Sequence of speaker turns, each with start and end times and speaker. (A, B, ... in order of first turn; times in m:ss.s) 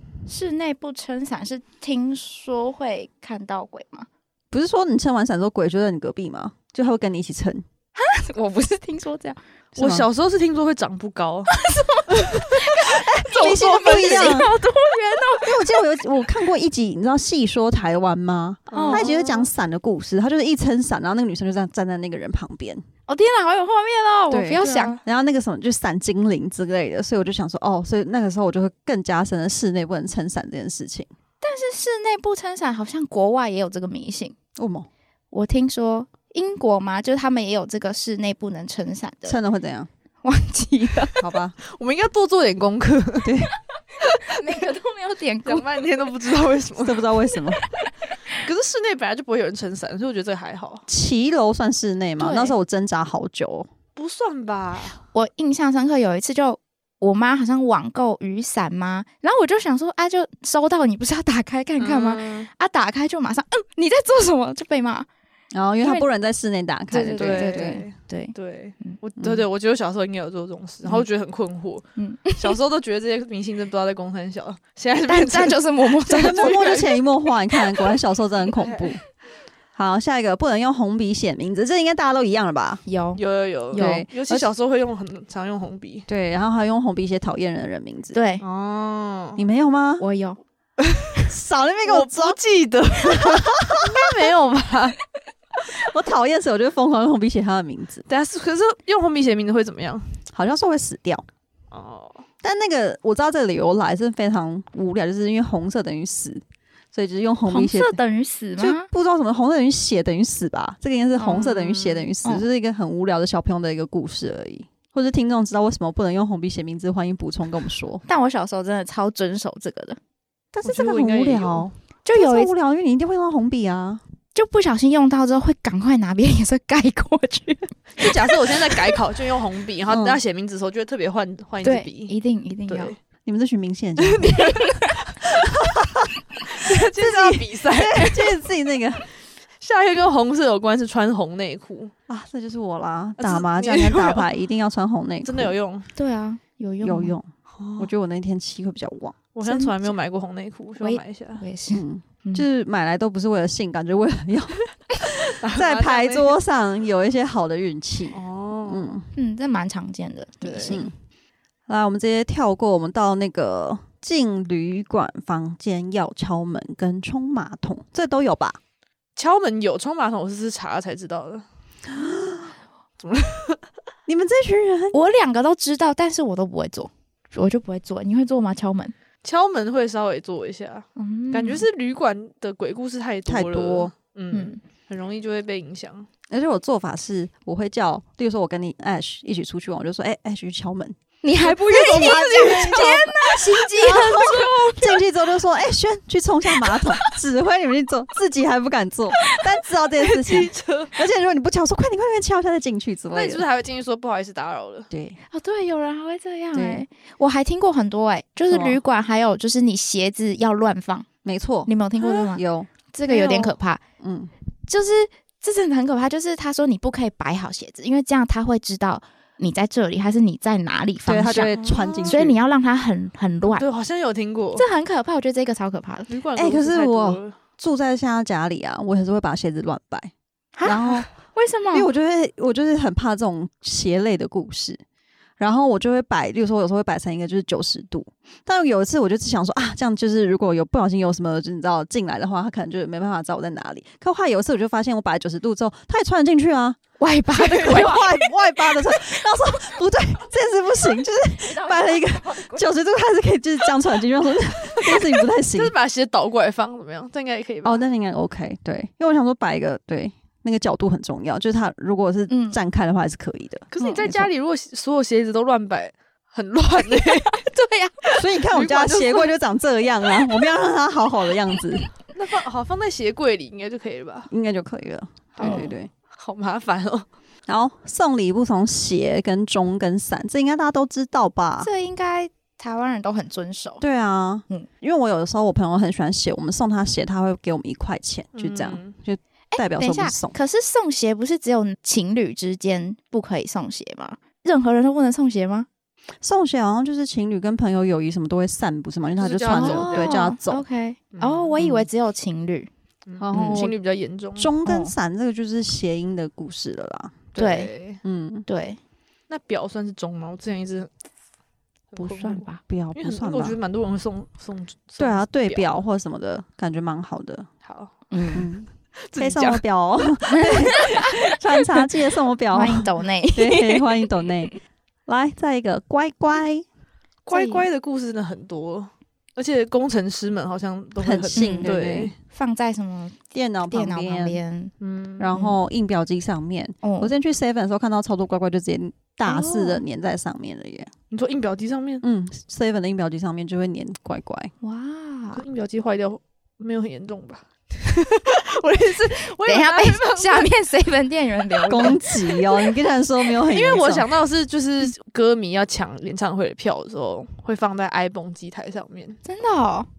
0:00.3-0:04.1 A
0:04.5-0:07.6 B
0:08.0-0:09.4 A
0:09.8-0:10.1 B
0:09.8-0:11.5 C
0:11.6-0:15.8 A
0:12.1-0:12.8 C
0:12.9-0:14.5 B
0:13.4-0:14.6 C
0:15.4-0:22.8 B
0:18.7-0:19.5 C
0:18.7-0:19.1 A
0:23.1-0:25.0 A
0:24.3-0:31.1 B
0:24.6-0:25.0 C
0:31.4-0:34.4 A
0:34.6-0:34.9 B
0:35.3-0:39.4 A
0:39.2-0:39.9 B
0:40.2-0:41.2 A
0:41.2-0:41.6 B
0:41.6-0:43.3 C
0:43.2-0:43.5 B
0:44.0-0:45.9 A
0:44.4-0:44.6 C
0:45.4-0:47.1 C
0:46.8-0:47.6 B
0:47.6-0:48.4 A
0:48.4-0:50.8 C
0:50.9-0:53.7 B
0:52.2-0:52.5 A
0:54.0-0:55.0 C
0:55.1-1:05.1 A
1:01.8-1:02.5 C
1:05.5-1:07.8 B
1:05.8-1:06.1 A
1:06.9-1:09.0 A
1:07.1-1:16.9 C
1:12.0-1:12.6 A
1:15.1-1:17.0 A
1:16.1-1:19.0 B
1:18.6-1:18.8 C
1:19.7-1:22.8 B
1:22.9-1:24.1 A
1:23.2-1:26.1 C
1:23.8-1:24.5 B
1:26.1-1:28.2 B
1:28.1-1:28.4 A
1:28.4-1:29.4 C
1:29.4-1:30.0 B
1:30.0-1:30.4 A
1:30.8-1:31.2 C
1:31.3-1:32.4 B
1:31.8-1:35.0 C
1:33.3-1:33.8 B
1:35.8-1:38.1 B
1:38.1-1:40.1 C
1:40.3-1:41.2 B
1:41.7-1:42.2 C
1:42.4-1:48.0 B
1:47.5-1:48.9 A
1:48.6-1:58.0 B
1:51.2-1:51.5 A
1:51.3-1:52.1 C
1:58.1-2:00.0 A
2:00.5-2:04.0 B
2:00.6-2:01.7 C
2:02.0-2:02.5 A
2:04.4-2:09.0 A
2:08.0-2:12.1 C
2:09.9-2:10.2 B
2:11.6-2:13.0 A
2:12.7-2:13.0 C
2:13.2-2:14.4 B
2:14.0-2:15.3 C
2:14.4-2:15.0 A
2:15.5-2:19.1 B
2:16.5-2:18.4 C
2:19.6-2:21.9 C
2:22.1-2:25.5 B
2:23.2-2:24.3 C
2:25.2-2:25.9 C
2:26.0-2:27.2 A
2:26.8-2:29.2 B
2:27.5-2:27.9 C
2:29.4-2:31.4 C
2:29.4-2:29.8 A
2:30.8-2:32.4 A
2:31.7-2:39.1 B
2:35.4-2:36.4 C
2:38.1-2:39.0 C
2:39.1-2:40.8 A
2:40.4-2:40.8 C
2:40.6-2:40.9 B
2:41.7-2:48.6 B
2:49.2-2:51.4 C
2:51.9-2:52.5 B
2:53.0-2:53.6 C
2:54.1-2:55.0 B
2:54.9-2:58.9 A
2:59.2-3:06.1 C
3:01.0-3:01.7 A
3:03.3-3:03.9 B
3:04.3-3:04.6 A
3:06.3-3:23.4 B
3:11.2-3:15.0 A
3:12.0-3:14.7 C
3:20.0-3:21.0 C
3:23.1-3:24.9 C
3:24.9-3:25.2 B
3:25.3-3:31.1 A
3:26.5-3:26.8 B
3:28.5-3:28.8 B
3:31.2-3:32.7 B
3:31.7-3:32.4 A
3:32.0-3:32.3 C
3:32.9-3:33.8 A
3:33.1-3:33.5 C
3:34.0-3:34.3 B
3:34.7-3:43.6 A
3:41.1-3:42.4 B
3:41.5-3:42.3 C
3:43.6-3:44.7 C
3:44.6-3:46.1 A
3:46.1-3:47.4 C
3:46.4-3:50.1 B
3:50.6-3:51.9 A
3:50.6-3:51.1 B
3:51.7-3:54.8 B
3:55.4-4:06.8 B
4:07.0-4:08.2 A
4:07.3-4:08.1 C
4:07.5-4:15.7 B
4:11.2-4:12.6 A
4:15.5-4:17.8 C
4:17.6-4:24.3 B
4:22.3-4:22.6 A
4:23.7-4:27.4 C
4:27.0-4:28.1 A
4:28.1-4:29.3 C
4:28.2-4:31.9 B
4:32.1-4:34.3 C
4:34.3-4:35.9 B
4:35.4-4:37.1 C
4:35.4-4:35.7 A
4:37.5-4:41.7 B
4:41.6-4:43.8 A
4:43.8-4:50.4 B
4:48.3-4:49.0 C
4:49.5-4:55.7 A
4:56.2-5:00.6 B
4:59.2-5:00.3 C
4:59.5-5:02.7 A
5:01.1-5:01.6 C
5:01.6-5:01.9 B
5:03.1-5:04.5 C
5:03.2-5:03.8 B
5:03.3-5:03.6 A
5:04.4-5:07.2 B
5:04.6-5:04.9 A
5:07.3-5:08.0 C
5:07.4-5:07.7 A
5:08.0-5:08.4 B
5:08.5-5:08.8 A
5:09.3-5:10.9 C
5:11.9-5:15.7 C
5:12.0-5:12.6 A
5:12.6-5:13.6 B
5:15.0-5:17.5 B
5:17.6-5:18.0 C
5:18.1-5:18.5 A
5:18.3-5:24.6 B
5:19.0-5:19.6 C
5:20.3-5:21.2 A
5:22.5-5:24.0 A
5:25.1-5:26.6 B
5:27.3-5:32.1 C
5:27.3-5:27.7 A
5:31.0-5:32.1 B
5:31.4-5:31.7 A
5:32.3-5:34.7 A
5:33.3-5:34.4 B
5:34.8-5:35.3 C
5:35.2-5:40.9 B
5:36.8-5:37.1 A
5:39.3-5:39.8 A
5:41.1-5:42.0 C
5:42.0-5:44.5 B
5:44.6-5:45.4 A
5:45.3-5:50.5 C
5:49.1-5:52.2 A
5:51.6-5:51.9 C
5:51.7-5:54.1 B
5:53.4-5:59.2 C
5:59.3-5:59.9 A